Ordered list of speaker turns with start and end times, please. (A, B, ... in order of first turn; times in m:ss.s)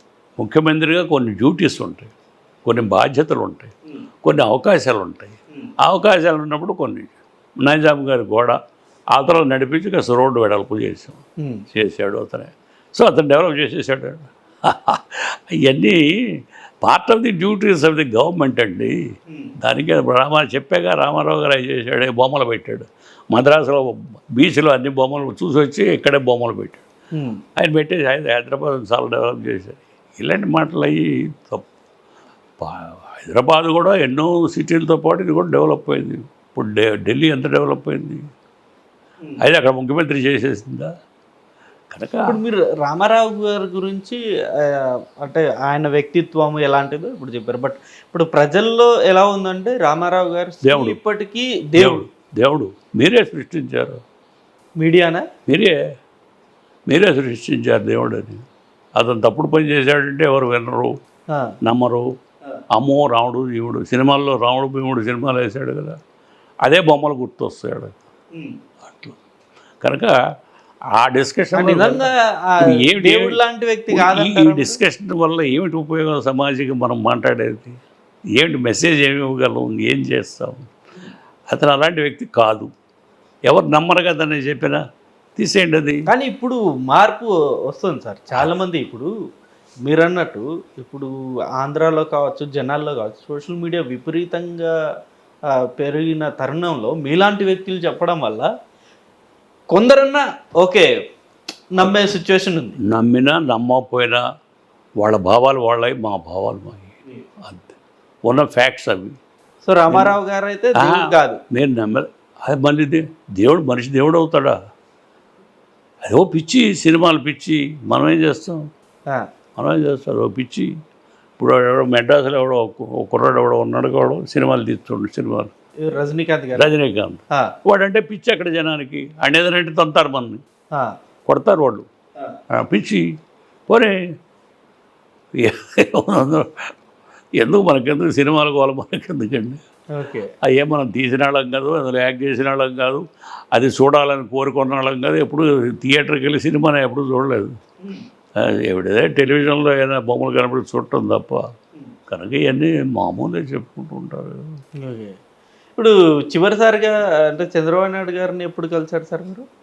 0:00.4-0:02.1 A
0:02.6-0:08.6 A
0:09.1-0:11.2 A
0:11.4-0:11.6 B
0:11.7-0:19.0 A
0:19.6-0:26.8 A
0:27.1-0:27.4 B
0:27.6-0:31.6 A
0:32.6-0:38.2 A
0:39.4-0:40.9 A
0:41.9-0:42.4 A
0:42.2-0:52.0 B
0:50.6-0:51.0 A
0:51.8-0:54.0 A
0:54.8-0:55.2 B
0:55.5-0:55.8 A
0:56.9-0:58.4 A
0:59.0-1:00.9 A
1:01.6-1:02.1 A
1:02.7-1:06.0 A
1:06.6-1:08.0 A
1:08.8-1:09.2 A
1:09.8-1:10.2 A
1:11.0-1:12.1 A
1:11.5-1:14.8 B
1:12.6-1:13.4 A
1:13.9-1:17.8 A
1:18.4-1:20.7 A
1:21.5-1:22.7 A
1:23.5-1:24.8 A
1:25.4-1:26.0 A
1:26.1-1:29.1 B
1:29.8-1:34.7 B
1:35.5-1:38.5 B
1:39.7-1:40.9 B
1:41.7-1:42.8 B
1:42.8-1:44.2 A
1:45.0-1:49.2 A
1:49.6-1:51.4 B
1:49.9-1:50.2 A
1:50.8-1:54.6 A
1:56.0-1:58.6 A
1:59.6-2:00.7 A
2:01.4-2:05.5 A
2:05.8-2:06.7 B
2:06.6-2:10.4 A
2:11.3-2:11.9 A
2:12.5-2:13.0 A
2:13.7-2:13.9 A
2:15.4-2:16.5 A
2:17.4-2:19.6 A
2:19.9-2:20.3 B
2:20.4-2:27.5 A
2:28.4-2:31.4 A
2:32.1-2:34.4 A
2:34.8-2:35.2 B
2:35.8-2:39.4 B